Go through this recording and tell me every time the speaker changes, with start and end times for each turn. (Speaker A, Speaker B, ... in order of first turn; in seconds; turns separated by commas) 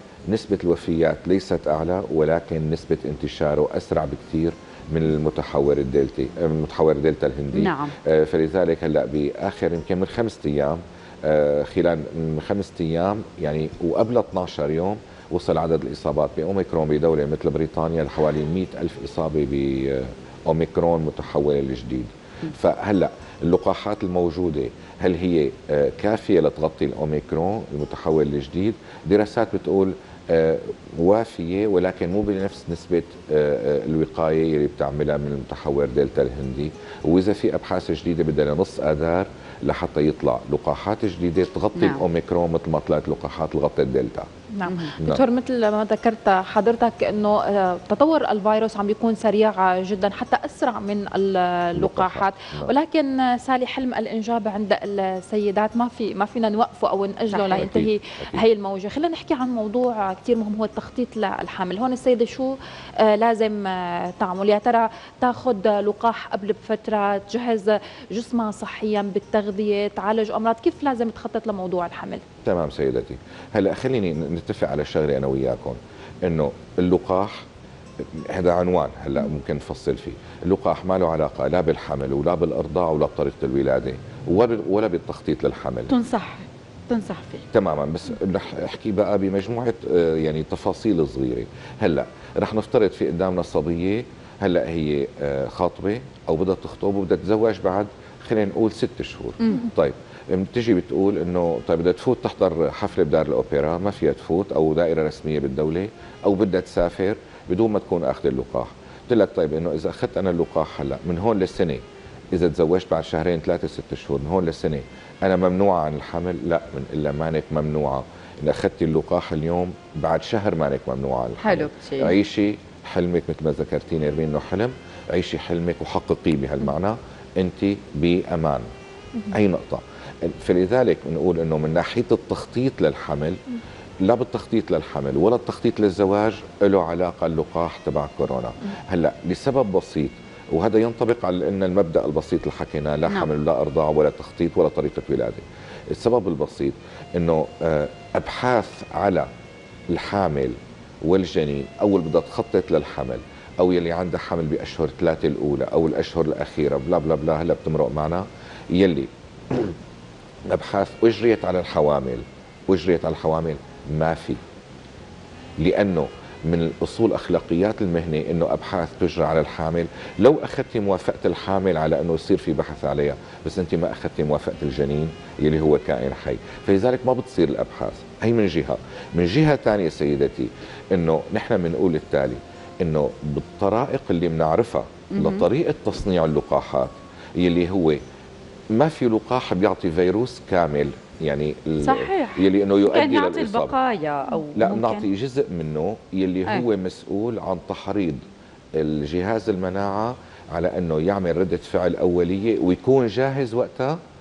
Speaker A: 0.3-44.3, Speaker B: 7.5-7.9, Speaker B: 41.8-42.0, Speaker C: 44.5-72.2, Speaker B: 44.6-44.9, Speaker A: 45.0-45.2, Speaker A: 51.8-52.7, Speaker B: 57.3-57.7, Speaker A: 57.6-58.4, Speaker A: 72.4-77.4, Speaker A: 78.1-85.9, Speaker B: 85.9-87.4, Speaker A: 87.5-111.8, Speaker B: 99.4-99.7, Speaker A: 112.3-128.6, Speaker B: 121.4-122.2, Speaker A: 129.3-133.4, Speaker A: 134.0-149.3, Speaker A: 149.9-159.8, Speaker A: 160.5-164.4, Speaker A: 165.6-188.0, Speaker B: 185.1-185.4, Speaker A: 188.7-193.7, Speaker B: 191.8-195.1, Speaker A: 194.5-198.2, Speaker A: 198.8-204.0